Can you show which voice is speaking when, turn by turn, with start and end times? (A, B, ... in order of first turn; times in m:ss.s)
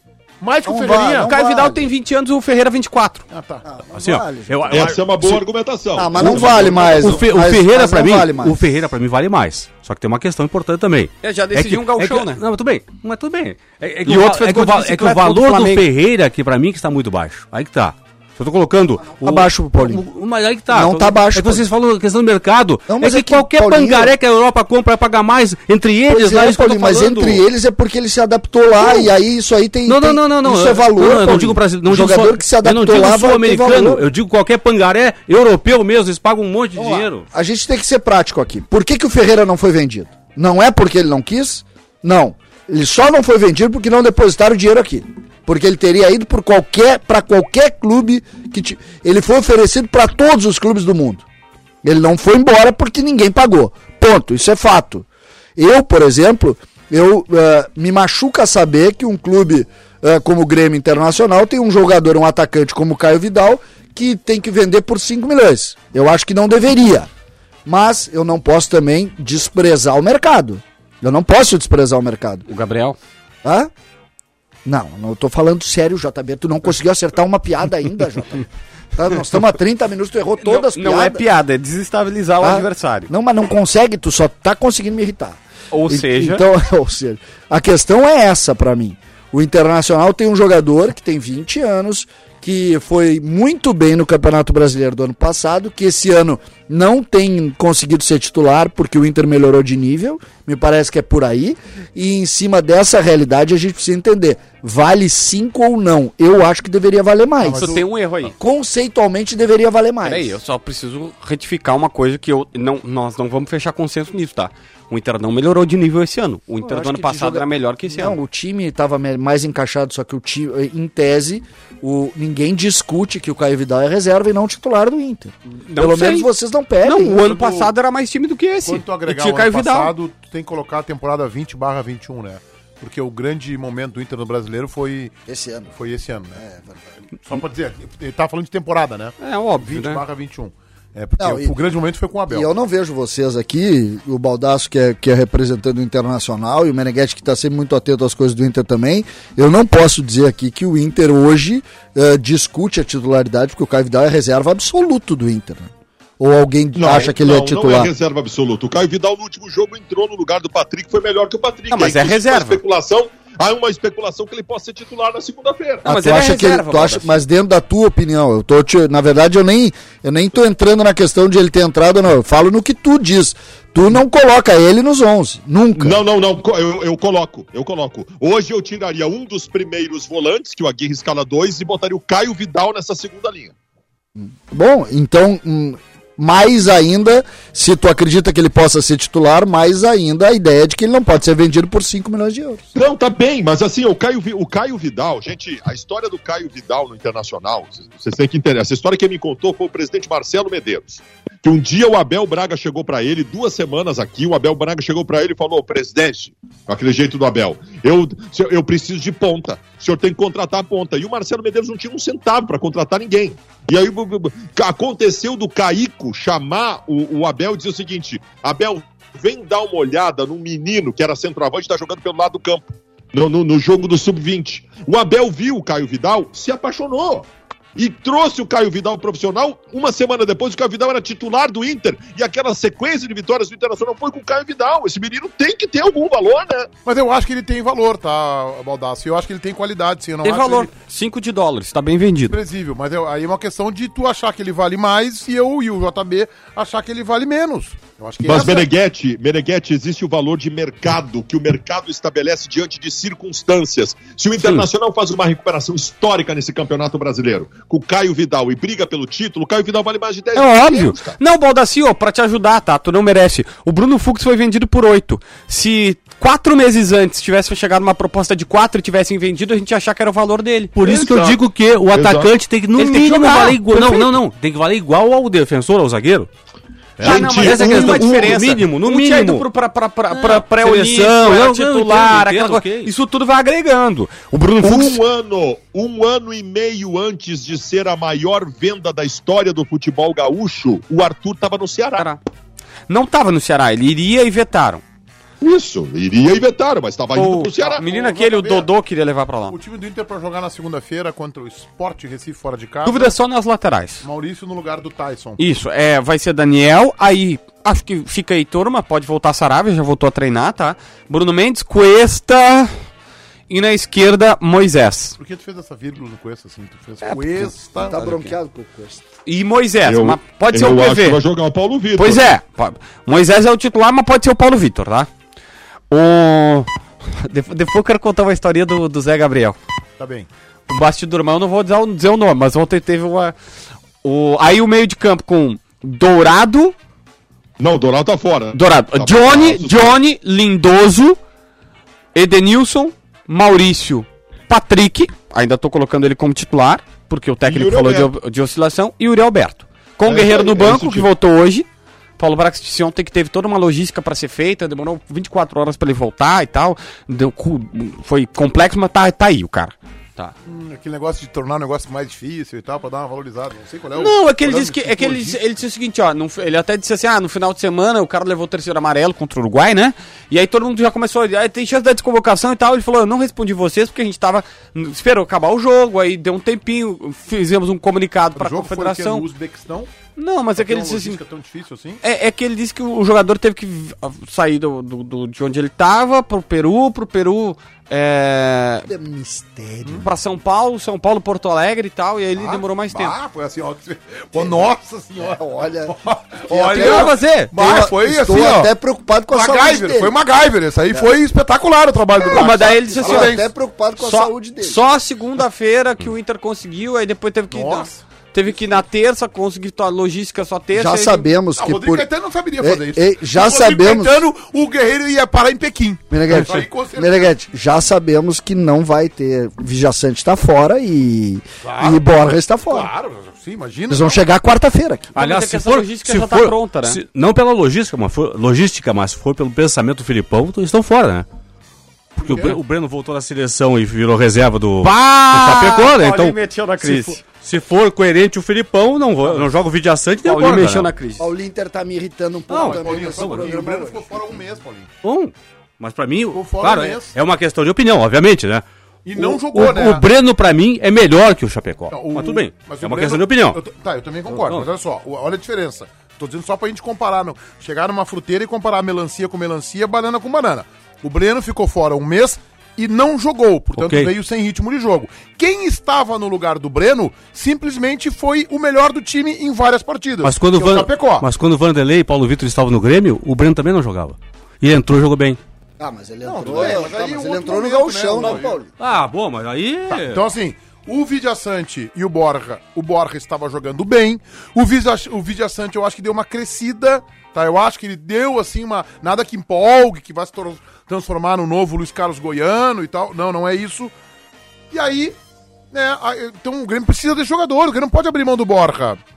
0:00.4-0:01.3 A
0:00.6-0:01.9 B
0:01.2-0:03.2 C
0:03.3-0:03.8 A
0:03.6-0:04.9 B
0:03.9-0:05.4 D
0:04.7-0:07.2 E
0:05.9-0:08.6 B
0:06.2-0:27.4 D
0:11.2-0:12.4 C
0:14.0-0:15.8 C
0:19.1-0:20.0 B
0:20.7-0:21.7 B
0:22.9-0:24.1 B
0:26.1-0:34.0 B
0:28.8-0:29.1 D
0:29.8-0:37.2 D
0:36.8-0:51.2 B
0:51.8-1:07.1 B
1:07.6-1:12.5 B
1:12.5-1:13.0 C
1:13.4-1:13.7 B
1:14.6-1:21.2 B
1:20.4-1:23.1 C
1:22.4-1:50.4 B
1:25.7-1:26.4 C
1:47.4-1:47.8 A
1:47.5-1:48.3 C
1:50.0-1:58.2 C
1:56.6-2:07.3 B
2:05.7-2:06.3 C
2:06.8-2:09.9 C
2:07.2-2:07.7 A
2:08.6-2:15.1 A
2:15.3-2:15.7 B
2:15.7-2:16.4 A
2:16.3-2:16.9 B
2:17.2-2:22.5 A
2:19.2-2:20.0 C
2:21.2-2:21.6 B
2:22.3-2:37.9 B
2:36.8-2:45.8 E
2:41.7-2:42.6 C
2:45.8-2:47.2 C
2:45.8-2:56.0 B
2:55.8-3:03.5 E
3:04.2-3:12.7 B
3:12.8-3:56.7 E
3:56.8-4:00.7 A
4:00.2-4:02.4 C
4:02.3-4:08.7 A
4:08.2-4:21.2 E
4:14.4-4:14.7 C
4:20.3-4:30.8 C
4:30.7-4:36.3 D
4:30.8-4:31.4 E
4:31.9-4:32.3 E
4:32.7-4:34.1 C
4:37.0-4:39.4 D
4:37.0-4:38.3 E
4:37.0-4:45.0 C
4:40.1-4:42.9 D
4:44.6-4:52.1 E
4:52.9-4:54.8 C
4:55.4-4:57.8 E
4:57.1-4:59.6 C
4:57.6-4:58.7 A
4:59.5-5:03.1 A
5:02.8-5:04.0 C
5:04.0-5:05.4 A
5:05.4-5:12.7 C
5:13.5-5:15.2 C
5:15.2-5:18.0 A
5:17.0-5:18.3 C
5:17.8-5:19.0 B
5:19.2-5:21.2 C
5:19.8-5:22.3 E
5:22.0-5:25.1 C
5:25.9-5:29.6 C
5:30.0-5:30.3 A
5:30.7-5:33.3 C
5:34.0-5:36.7 C
5:37.6-5:40.0 E
5:38.5-5:41.2 C
5:42.1-5:51.7 C
5:47.4-5:48.1 E
5:50.0-5:51.1 A
5:52.2-6:00.3 C
6:00.4-6:05.5 A
6:03.9-6:19.3 C
6:18.4-6:19.9 A
6:20.2-6:21.2 C
6:20.6-6:22.0 A
6:22.0-6:28.9 C
6:28.9-6:30.1 B
6:30.0-6:33.2 C
6:32.4-6:38.7 A
6:34.3-6:34.7 B
6:35.3-6:40.1 B
6:36.7-6:37.5 C
6:39.3-6:43.4 A
6:42.2-6:44.8 B
6:42.3-6:43.4 C
6:44.0-6:51.3 C
6:47.5-6:48.0 A
6:50.7-6:52.1 B
6:51.6-6:57.3 A
6:52.6-6:54.2 B
6:56.1-7:02.9 B
7:01.6-7:02.0 A
7:02.7-7:04.2 A
7:03.9-7:05.1 B
7:05.1-7:11.3 D
7:05.1-7:07.0 C
7:12.2-7:20.9 D
7:12.2-7:12.6 A
7:14.8-7:17.2 C
7:20.2-7:21.3 C
7:21.2-7:24.1 B
7:22.5-7:23.5 D
7:22.6-7:24.9 A
7:25.0-7:28.6 D
7:26.3-7:27.1 A
7:29.0-7:30.0 A
7:29.2-7:33.6 D
7:31.9-7:51.3 A
7:34.3-7:34.7 D
7:43.8-7:44.1 D
7:50.2-7:55.4 D
7:55.8-7:58.7 B
7:56.2-7:58.6 A
7:58.8-8:00.2 D
7:59.9-8:13.9 A
8:14.7-8:15.2 A
8:15.7-8:19.0 A